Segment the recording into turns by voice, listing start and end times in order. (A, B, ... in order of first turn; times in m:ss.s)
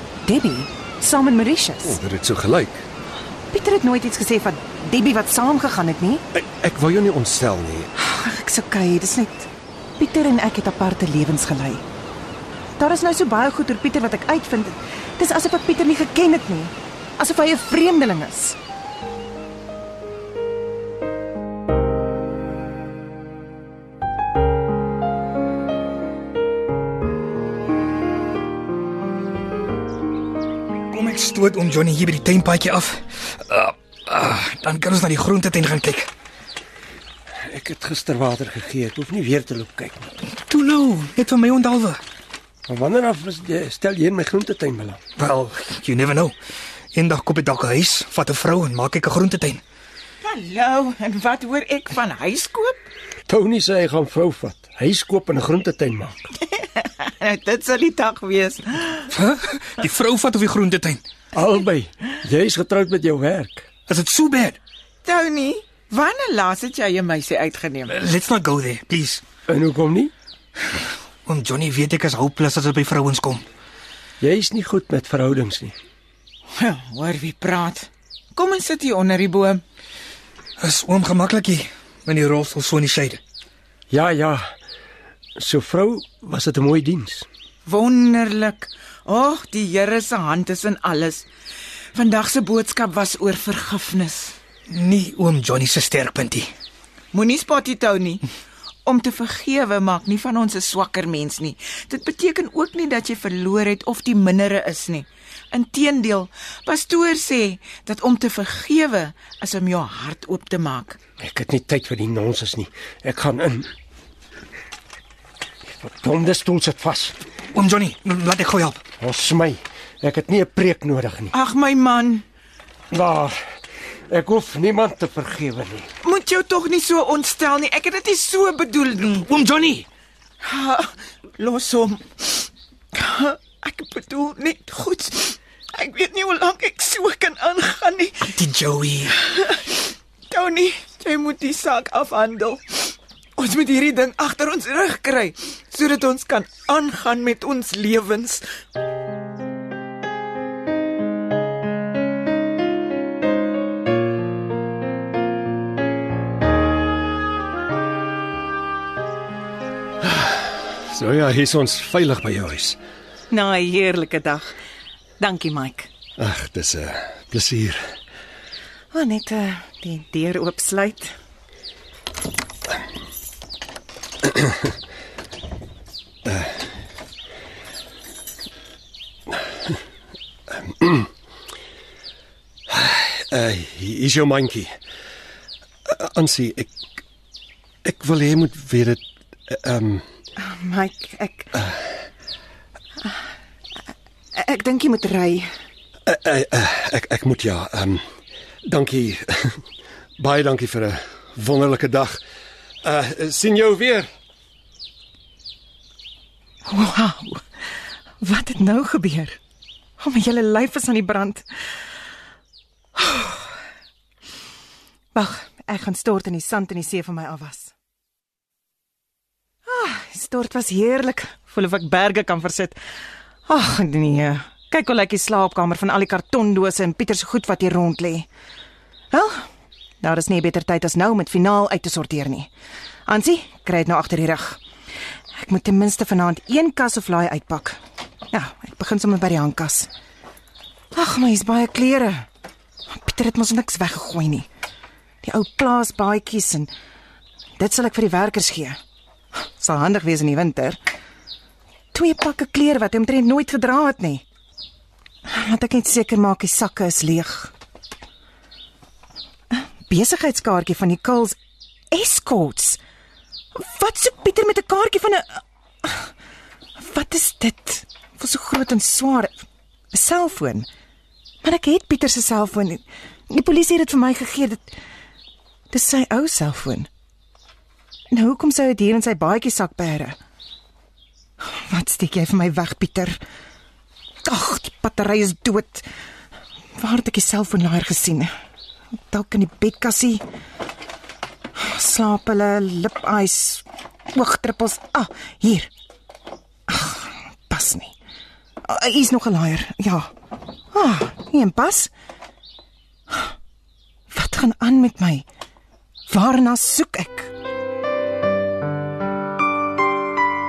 0:00.2-0:02.0 A
0:01.8-0:02.8 B
0:03.5-0:06.2 A
0:06.3-0:07.9 B
0:08.0-0:11.8 A
0:12.8-0:18.6 A
0:30.9-0:36.1 C
0:37.5-0:40.1 D
0:40.3-0:42.0 C
0:42.7-0:45.0 D
0:45.2-0:46.3 C
0:46.9-0:49.6 C
0:50.2-0:52.8 E
0:53.3-0:56.3 D
0:56.5-0:59.1 E
0:59.1-1:01.0 C
1:01.4-1:03.7 D
1:03.9-1:04.6 C
1:05.0-1:08.0 E
1:07.9-1:09.2 C
1:09.5-1:10.1 D
1:11.3-1:13.4 C
1:14.2-1:15.7 D
1:16.6-1:19.6 E
1:20.6-1:23.2 C
1:23.9-1:24.5 D
1:25.4-1:27.3 D
1:27.7-1:31.3 E
1:31.9-1:34.3 E
1:34.7-1:36.5 C
1:37.1-1:38.2 E
1:38.9-1:51.0 E
1:51.2-1:53.7 D
1:55.7-1:57.3 D
1:57.5-1:58.8 C
1:59.0-2:01.3 D
2:01.3-2:02.2 E
2:02.9-2:03.3 D
2:04.1-2:05.9 D
2:06.0-2:09.2 E
2:09.1-2:09.9 C
2:10.4-2:18.3 E
2:18.4-2:19.2 C
2:19.1-2:28.5 E
2:40.0-2:42.8 B
2:43.3-2:44.5 A
2:45.2-2:45.9 A
2:46.2-2:47.8 B
2:48.9-2:51.1 A
3:00.8-3:01.1 B
3:02.7-3:04.7 B
3:05.9-3:06.7 B
3:07.8-3:10.0 B
3:10.4-3:11.6 A
3:14.4-3:15.5 A
3:16.1-3:18.0 B
3:18.6-3:19.6 B
3:20.2-3:22.2 B
3:22.8-3:24.1 B
3:26.6-3:27.4 A
3:28.2-3:29.4 A
3:30.0-3:31.5 A
3:33.0-3:33.4 A
3:35.1-3:37.7 A
3:39.7-3:42.8 A
3:43.5-3:48.3 A
3:49.1-3:49.5 A
3:50.0-3:52.5 A
3:53.1-3:54.6 A
3:55.4-3:57.8 A
3:58.3-3:59.9 A
4:00.9-4:02.3 A
4:02.9-4:04.5 A
4:05.2-4:06.7 A
4:07.6-4:08.8 A
4:09.5-4:10.8 A
4:11.9-4:14.2 A
4:15.3-4:17.5 A
4:19.5-4:21.4 A
4:21.9-4:22.8 A
4:23.6-4:26.1 A
4:26.8-4:30.7 A
4:31.4-4:34.8 A
4:35.7-4:36.9 A
4:38.1-4:40.2 A
4:41.4-4:43.2 A
4:44.2-4:45.8 A
4:46.8-4:48.3 A
4:49.1-4:50.2 A
4:51.6-4:55.7 A
4:56.7-4:57.9 A
4:58.6-5:00.1 A
5:00.7-5:01.9 A
5:04.1-5:05.2 A
5:06.1-5:07.3 A